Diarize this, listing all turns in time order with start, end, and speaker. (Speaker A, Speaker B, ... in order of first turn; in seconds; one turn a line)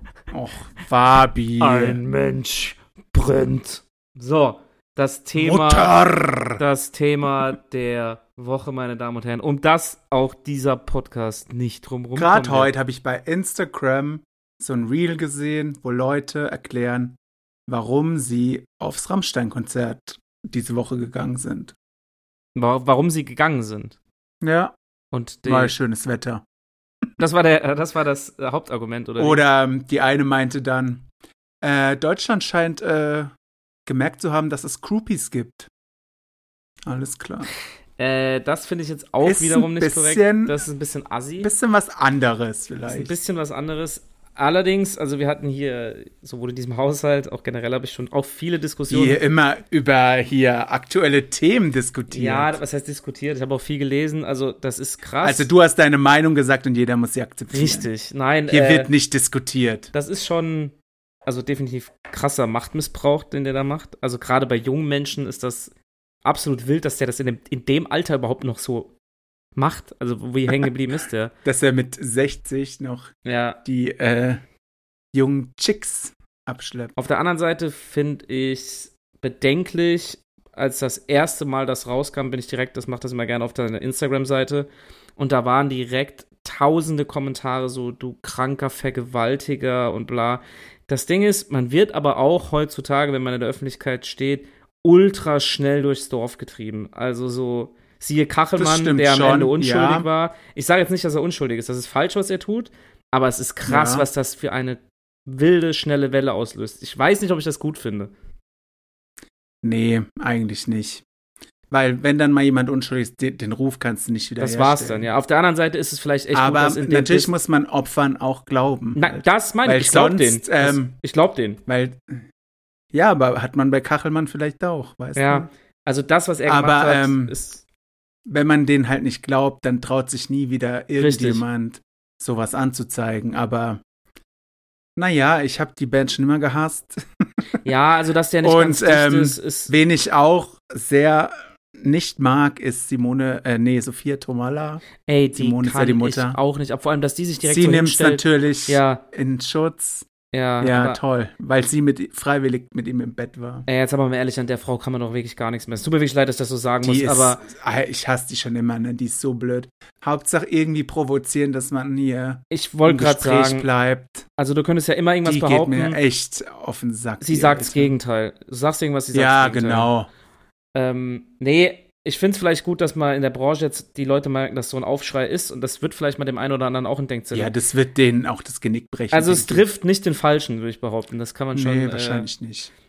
Speaker A: 0.3-2.0
Speaker B: 1.6-6.0
Speaker A: 5.3-6.6
Speaker B: 6.5-12.7
Speaker A: 12.2-21.7
Speaker B: 22.5-23.9
Speaker A: 24.4-24.7
Speaker B: 25.1-25.7
Speaker A: 25.4-26.4
Speaker B: 27.2-29.4
Speaker A: 29.2-31.0
Speaker A: 31.6-33.3
Speaker A: 33.9-35.7
Speaker A: 36.9-37.5
Speaker B: 38.0-41.5
Speaker A: 39.2-40.5
Speaker A: 41.4-43.1
Speaker B: 42.9-49.2
Speaker A: 48.9-52.6
Speaker B: 52.1-55.5
Speaker A: 55.2-57.9
Speaker B: 57.5-58.9
Speaker A: 58.5-59.9
Speaker B: 59.9-60.7
Speaker B: 61.2-65.7
Speaker B: 66.2-68.9
Speaker B: 69.5-71.3
Speaker A: 71.4-74.4
Speaker B: 73.2-73.6
Speaker A: 75.1-76.9
Speaker B: 77.0-108.1
Speaker A: 98.6-100.0
Speaker A: 103.7-104.1
Speaker A: 109.6-111.0
Speaker A: 111.7-115.1
Speaker B: 114.4-117.3
Speaker A: 116.3-121.0
Speaker B: 118.9-121.6
Speaker A: 121.7-122.2
Speaker A: 122.9-125.5
Speaker B: 125.2-127.6
Speaker A: 126.5-127.3
Speaker A: 128.3-133.8
Speaker B: 131.0-131.4
Speaker A: 135.0-137.0
Speaker B: 137.6-139.7
Speaker A: 138.4-146.4
Speaker B: 145.0-149.0
Speaker A: 147.4-150.1
Speaker B: 150.3-151.0
Speaker A: 150.6-153.7
Speaker B: 153.7-157.4
Speaker A: 156.8-164.2
Speaker B: 162.5-163.7
Speaker B: 164.4-166.0
Speaker A: 165.2-167.9
Speaker B: 167.2-169.9
Speaker A: 169.1-170.1
Speaker B: 170.7-177.5
Speaker A: 177.3-179.7
Speaker B: 179.1-182.3
Speaker A: 181.5-182.7